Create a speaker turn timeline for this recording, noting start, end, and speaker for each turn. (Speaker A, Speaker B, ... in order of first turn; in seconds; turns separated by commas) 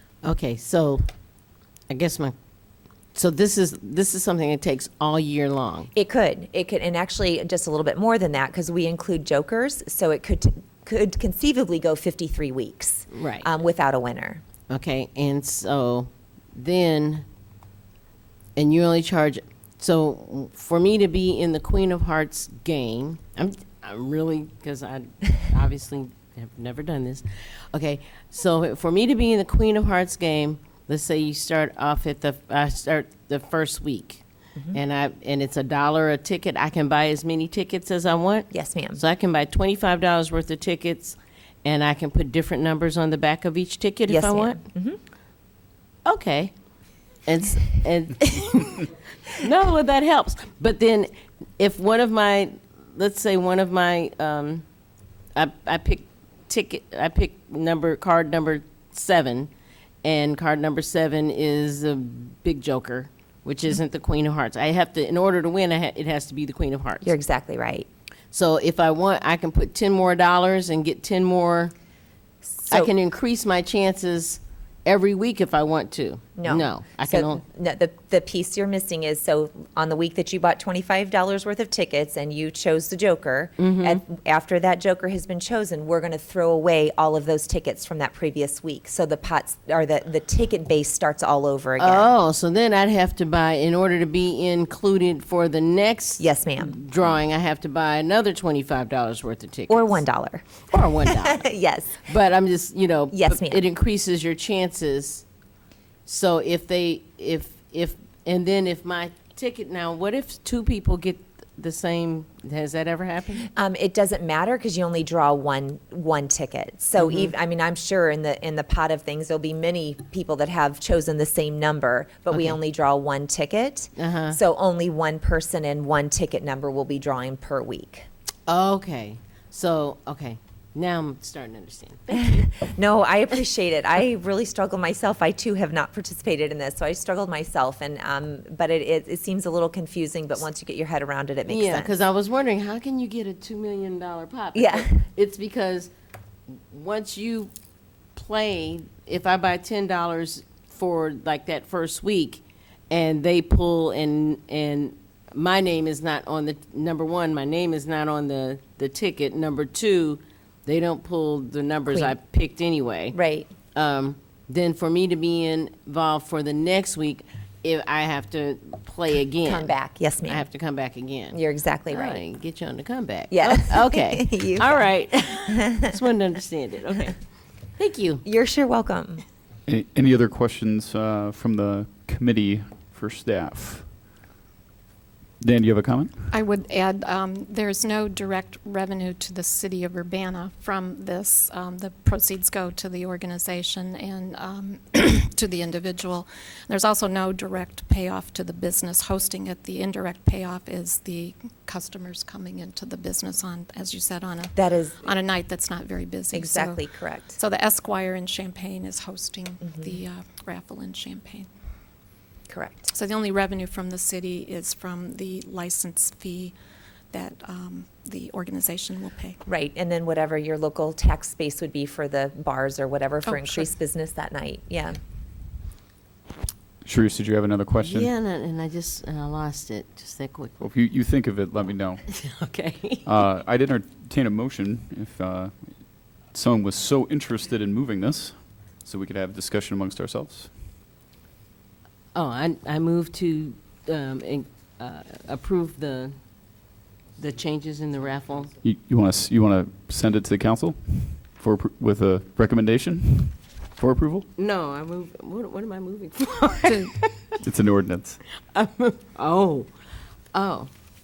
Speaker A: 0.2-1.0, Speaker A: 1.9-2.3, Speaker A: 3.1-5.9, Speaker B: 5.9-14.4, Speaker A: 13.1-13.5, Speaker A: 14.7-17.2, Speaker A: 18.6-34.2, Speaker A: 34.7-44.6, Speaker B: 38.5-39.0, Speaker B: 44.1-45.0, Speaker A: 46.1-46.5, Speaker A: 47.3-54.6, Speaker A: 55.4-59.5, Speaker A: 60.0-67.1, Speaker B: 67.0-67.9, Speaker A: 68.3-71.7, Speaker B: 72.5-72.9, Speaker A: 72.7-77.4, Speaker B: 76.4-92.1, Speaker A: 83.6-84.0, Speaker A: 91.8-100.0, Speaker B: 96.2-96.8, Speaker B: 99.7-102.0, Speaker A: 100.7-101.4, Speaker A: 102.0-105.2, Speaker B: 103.1-103.6, Speaker A: 106.1-113.5, Speaker B: 113.5-128.1, Speaker A: 117.0-117.3, Speaker A: 122.3-122.6, Speaker A: 124.0-124.4, Speaker A: 128.5-132.6, Speaker B: 132.1-141.9, Speaker A: 141.5-145.9, Speaker B: 144.6-145.1, Speaker A: 146.7-147.5, Speaker A: 148.2-163.2, Speaker B: 161.9-162.2, Speaker B: 163.1-163.5, Speaker A: 163.8-169.7, Speaker B: 169.4-170.5, Speaker A: 170.3-171.4, Speaker B: 171.3-172.2, Speaker A: 171.9-177.2, Speaker B: 173.3-174.9, Speaker A: 177.8-178.2, Speaker B: 178.2-179.2, Speaker C: 179.7-183.9, Speaker C: 185.4-186.3, Speaker D: 186.3-211.5, Speaker B: 204.6-205.0, Speaker B: 206.3-207.4, Speaker B: 212.5-212.9, Speaker D: 212.9-216.6, Speaker D: 217.1-219.4, Speaker B: 219.5-225.0, Speaker D: 223.2-223.7, Speaker C: 226.8-228.1, Speaker A: 227.8-230.7, Speaker C: 230.6-232.1, Speaker A: 232.1-233.1, Speaker C: 233.1-240.5, Speaker A: 242.2-246.1, Speaker A: 247.2-248.5, Speaker C: 248.6-254.3, Speaker A: 254.4-257.4, Speaker C: 257.4-258.2, Speaker A: 258.5-259.7, Speaker A: 260.3-260.7